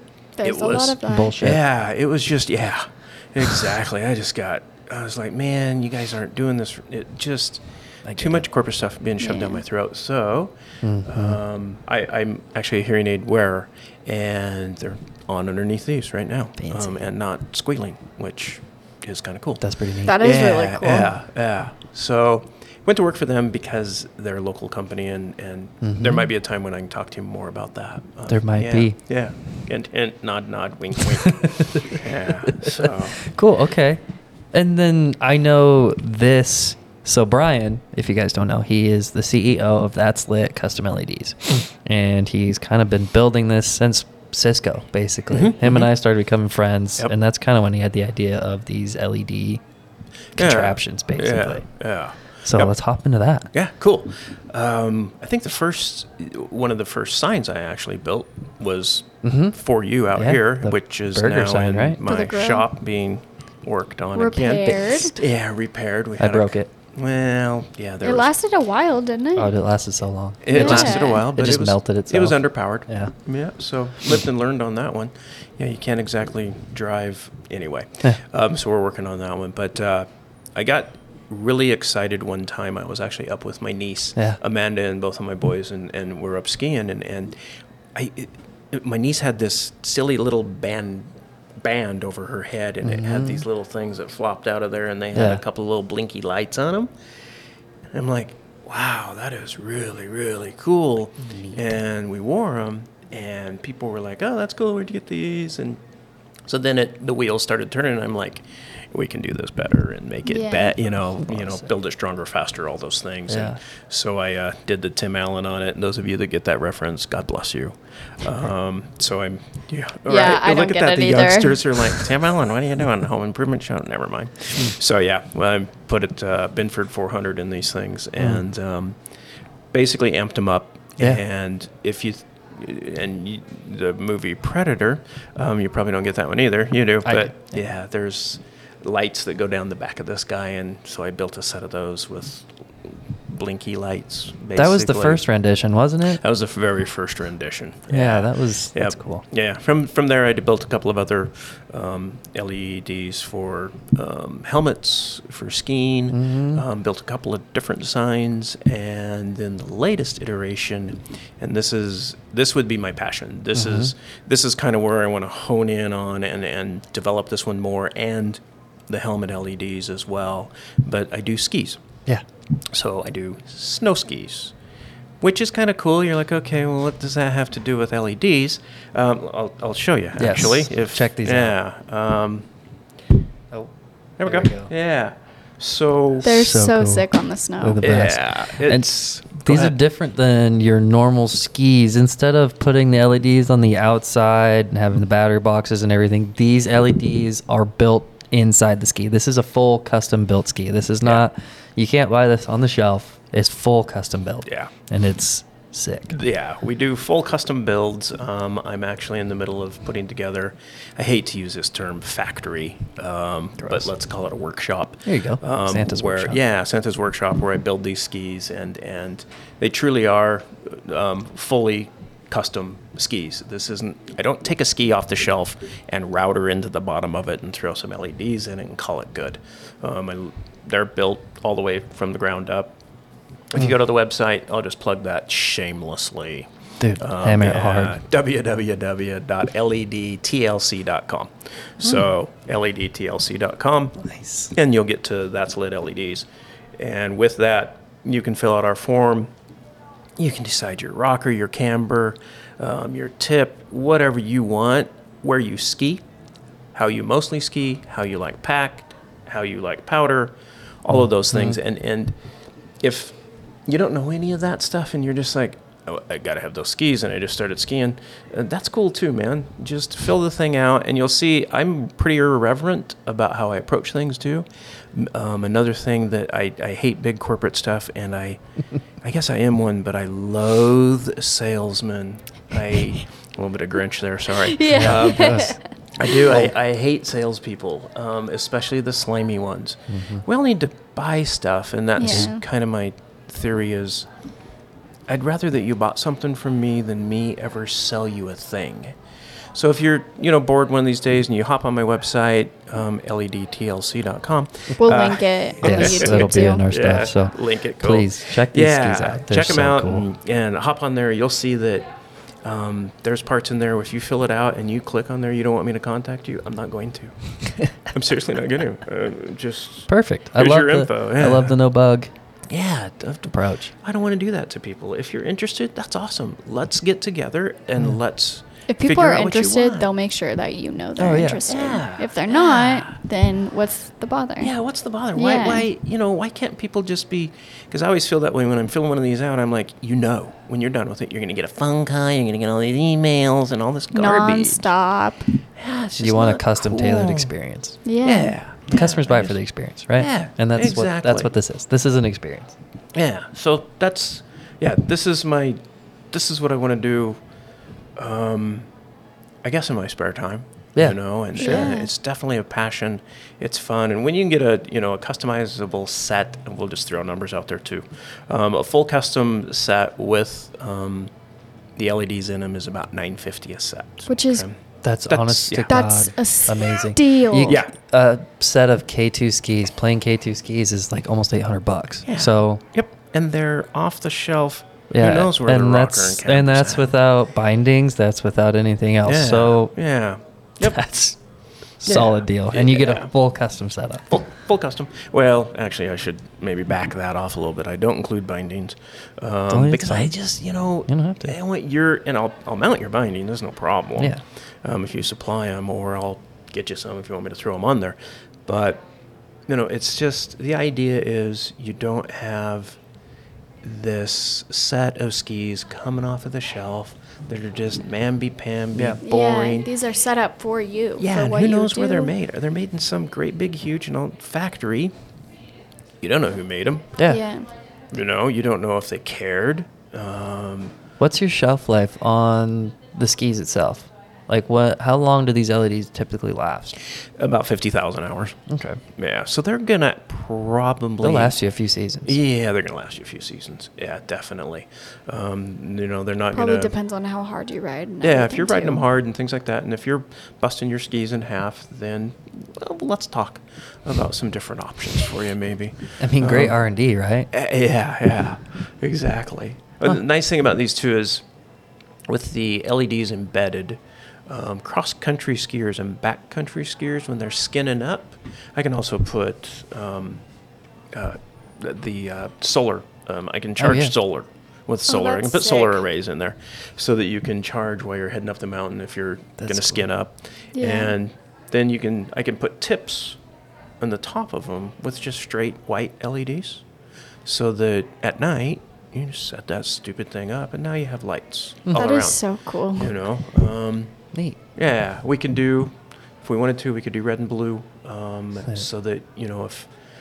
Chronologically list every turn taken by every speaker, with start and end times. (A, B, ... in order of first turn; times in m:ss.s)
0:00.4-0:01.5 A
0:00.4-0:07.6 B
0:01.1-0:01.6 C
0:08.1-0:08.4 C
0:08.2-0:33.2 B
0:09.2-0:09.6 A
0:10.8-0:11.4 C
0:16.6-0:17.0 C
0:19.6-0:20.2 C
0:20.0-0:21.1 A
0:25.8-0:26.3 C
0:28.3-0:29.0 C
0:31.2-0:34.0 C
0:34.5-0:49.6 C
0:45.3-0:45.9 B
0:50.4-0:51.7 C
0:50.4-0:52.7 B
0:52.4-0:53.5 C
0:53.5-1:08.3 B
0:59.2-0:59.6 C
1:00.2-1:02.0 C
1:02.0-1:02.7 A
1:04.2-1:05.2 A
1:04.6-1:05.1 C
1:06.2-1:06.7 C
1:08.0-1:09.5 A
1:09.4-1:13.1 C
1:10.4-1:27.4 B
1:10.5-1:11.3 A
1:27.9-1:36.9 B
1:32.8-1:33.4 C
1:35.1-1:35.4 C
1:37.9-1:45.8 B
1:41.2-1:41.8 C
1:46.4-2:09.0 B
1:50.3-1:50.8 A
1:51.2-1:51.6 C
1:53.3-1:53.6 C
2:00.1-2:02.0 A
2:04.5-2:04.8 C
2:08.2-2:08.4 C
2:09.7-2:25.2 B
2:17.0-2:17.6 C
2:24.6-2:26.2 C
2:26.0-2:51.8 B
2:27.9-2:29.2 C
2:36.1-2:36.6 C
2:43.5-2:43.9 C
2:52.7-2:54.6 B
2:55.2-3:02.5 B
3:00.2-3:01.6 C
3:04.2-3:06.4 B
3:04.2-3:04.7 C
3:06.2-3:07.8 A
3:06.2-3:07.1 C
3:07.6-3:26.2 C
3:07.8-3:09.8 B
3:24.5-3:24.7 B
3:26.1-3:52.8 B
3:35.1-3:36.4 C
3:53.5-4:04.0 B
3:56.8-3:58.0 C
4:04.0-4:04.5 C
4:04.5-4:09.3 B
4:10.2-4:16.1 B
4:16.7-4:22.2 B
4:20.9-4:21.6 C
4:22.8-4:38.4 B
4:39.0-4:54.1 B
4:44.4-4:45.6 A
4:44.7-4:45.6 C
4:49.9-4:50.2 C
4:52.0-4:52.4 A
4:52.0-4:52.3 C
4:55.1-4:59.0 B
4:59.5-5:11.9 B
5:04.8-5:06.6 A
5:05.6-5:10.1 C
5:12.4-5:21.6 B
5:19.9-5:22.1 C
5:22.5-5:29.9 B
5:23.3-5:23.7 C
5:28.7-5:34.5 A
5:31.0-5:31.5 C
5:31.4-5:33.0 B
5:34.4-5:44.7 B
5:35.2-5:35.7 A
5:43.9-5:45.3 A
5:45.6-5:47.3 B
5:46.0-5:47.8 C
5:47.8-5:48.4 A
5:48.0-5:49.4 B
5:48.7-5:52.6 C
5:50.0-5:51.3 B
5:52.9-5:55.6 B
5:56.1-5:57.2 B
5:58.0-5:58.7 B
5:59.4-6:11.1 B
6:00.8-6:01.8 C
6:01.4-6:01.9 A
6:11.8-6:15.8 B
6:14.1-6:14.5 A
6:14.8-6:22.6 C
6:15.7-6:17.6 A
6:17.4-6:17.7 B
6:22.0-6:26.9 B
6:24.9-6:29.7 C
6:29.0-6:30.8 B
6:30.6-6:31.2 C
6:31.8-6:34.1 C
6:31.8-6:33.1 B
6:34.1-6:48.8 B
6:39.5-6:40.2 C
6:40.9-6:41.4 C
6:44.0-6:44.2 C
6:49.5-6:52.8 B
6:53.6-6:59.7 B
6:58.8-6:59.0 C
6:59.0-7:02.1 A
7:01.0-7:05.0 B
7:06.0-7:07.0 B
7:07.1-7:07.5 A
7:07.9-7:10.8 B
7:11.0-7:16.8 C
7:17.2-7:18.4 B
7:18.5-7:18.8 C
7:19.0-7:21.4 B
7:21.0-7:22.2 C
7:22.0-7:26.8 B
7:26.3-7:28.8 A
7:28.0-7:36.6 B
7:36.0-7:37.3 C
7:37.3-7:41.3 B
7:42.1-7:50.2 B
7:50.9-8:03.2 B
7:53.6-7:53.9 C
7:54.9-7:55.8 A
7:59.4-7:59.9 C
8:00.6-8:01.0 A
8:03.8-8:06.6 B
8:07.2-8:12.2 B
8:11.7-8:13.0 A
8:12.7-8:14.0 B
8:14.6-8:19.7 B